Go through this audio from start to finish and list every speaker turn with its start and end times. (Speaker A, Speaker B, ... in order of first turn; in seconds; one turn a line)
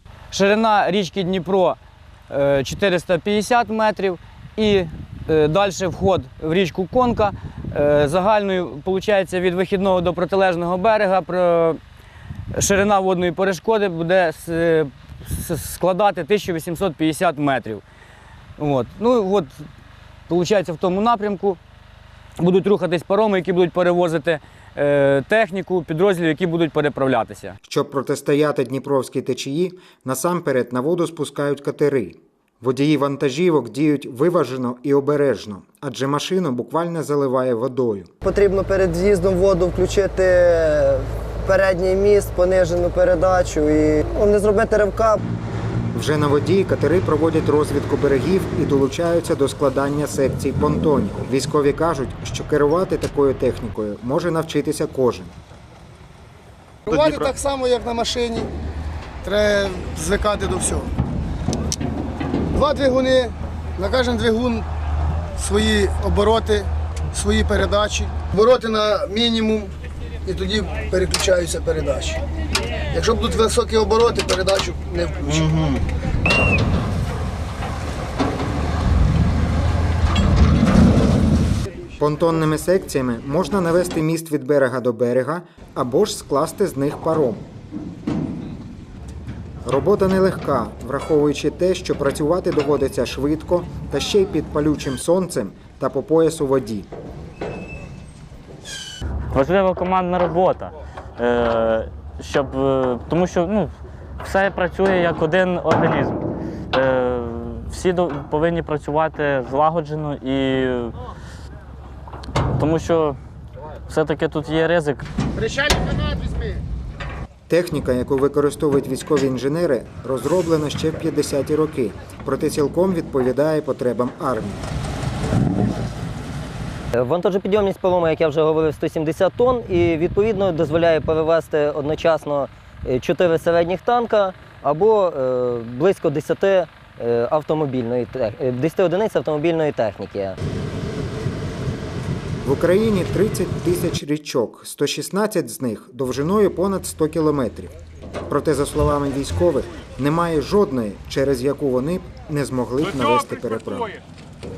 Speaker A: 0.3-1.8
Speaker A: 2.3-11.8
Speaker A: 12.5-17.8
Speaker A: 18.6-19.7
Speaker A: 20.3-21.6
Speaker A: 22.4-27.6
Speaker B: 27.7-38.1
Speaker C: 38.2-45.2
Speaker B: 45.9-55.3
Speaker D: 56.9-58.5
Speaker D: 59.2-60.9
Speaker D: 62.5-64.7
Speaker D: 65.4-69.7
Speaker D: 70.2-72.2
Speaker D: 72.9-75.8
Speaker B: 82.0-87.5
Speaker B: 89.7-96.9
Speaker E: 99.3-111.0
Speaker E: 112.5-113.2
Speaker E: 113.9-115.0
Speaker D: 115.6-116.5
Speaker B: 117.5-124.6
Speaker F: 126.9-140.4
Speaker B: 142.4-147.7
Speaker B: 148.3-154.0